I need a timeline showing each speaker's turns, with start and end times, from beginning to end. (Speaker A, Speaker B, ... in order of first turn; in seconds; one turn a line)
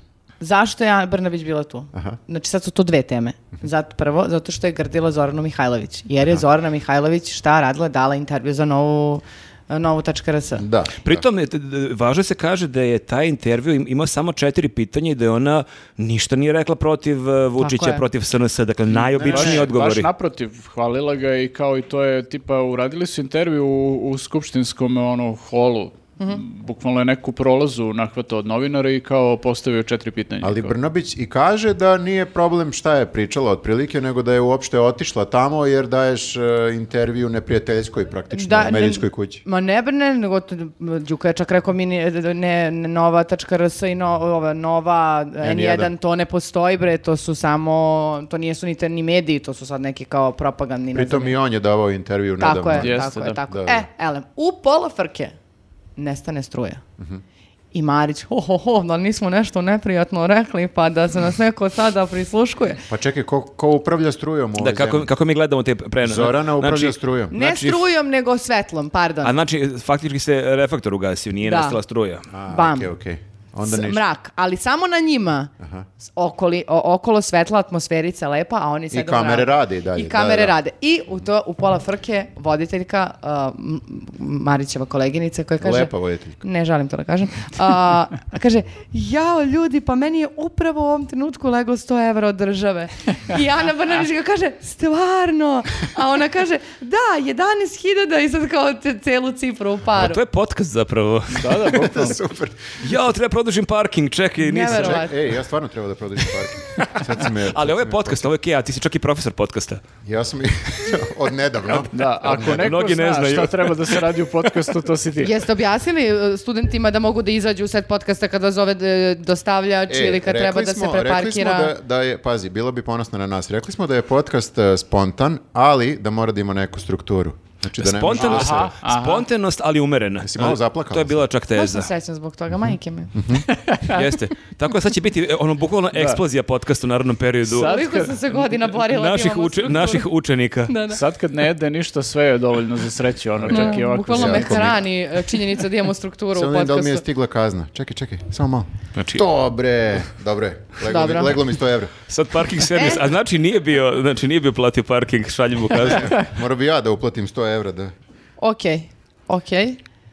Speaker A: 0.4-10.7
Speaker B: 1.9-2.2
Speaker B: 10.6-11.2
Speaker C: 11.0-20.1
Speaker A: 17.6-18.0
Speaker D: 18.9-30.7
Speaker B: 30.4-39.4
Speaker A: 38.3-51.3
Speaker B: 45.4-45.9
Speaker B: 50.9-53.9
Speaker A: 52.4-55.3
Speaker D: 52.8-53.4
Speaker A: 56.0-56.8
Speaker A: 57.7-62.8
Speaker B: 62.9-65.1
Speaker C: 64.6-67.8
Speaker B: 66.0-67.4
Speaker A: 67.3-69.3
Speaker C: 69.2-72.3
Speaker A: 71.4-71.8
Speaker B: 72.3-74.0
Speaker A: 72.5-72.9
Speaker A: 73.6-75.5
Speaker B: 75.6-75.9
Speaker A: 76.1-100.2
Speaker B: 78.9-80.5
Speaker B: 85.6-86.4
Speaker C: 100.0-101.7
Speaker D: 101.3-102.2
Speaker B: 101.7-102.9
Speaker C: 102.8-105.1
Speaker A: 104.4-105.1
Speaker B: 104.7-108.3
Speaker C: 107.4-109.8
Speaker B: 110.0-112.7
Speaker D: 111.9-115.3
Speaker C: 112.2-114.2
Speaker A: 115.2-121.7
Speaker B: 119.9-128.7
Speaker C: 127.8-131.9
Speaker D: 128.1-129.2
Speaker B: 130.2-131.2
Speaker A: 131.5-133.1
Speaker B: 133.1-133.4
Speaker D: 133.5-134.0
Speaker C: 133.8-137.8
Speaker D: 135.9-136.2
Speaker D: 137.4-138.2
Speaker A: 137.5-140.1
Speaker C: 138.9-140.7
Speaker A: 140.7-141.0
Speaker D: 140.9-144.7
Speaker B: 143.4-144.8
Speaker A: 143.5-147.0
Speaker B: 146.3-151.9
Speaker C: 148.9-149.2
Speaker A: 150.8-151.4
Speaker C: 152.1-156.2
Speaker A: 152.7-153.0
Speaker B: 155.7-157.9
Speaker A: 158.4-159.8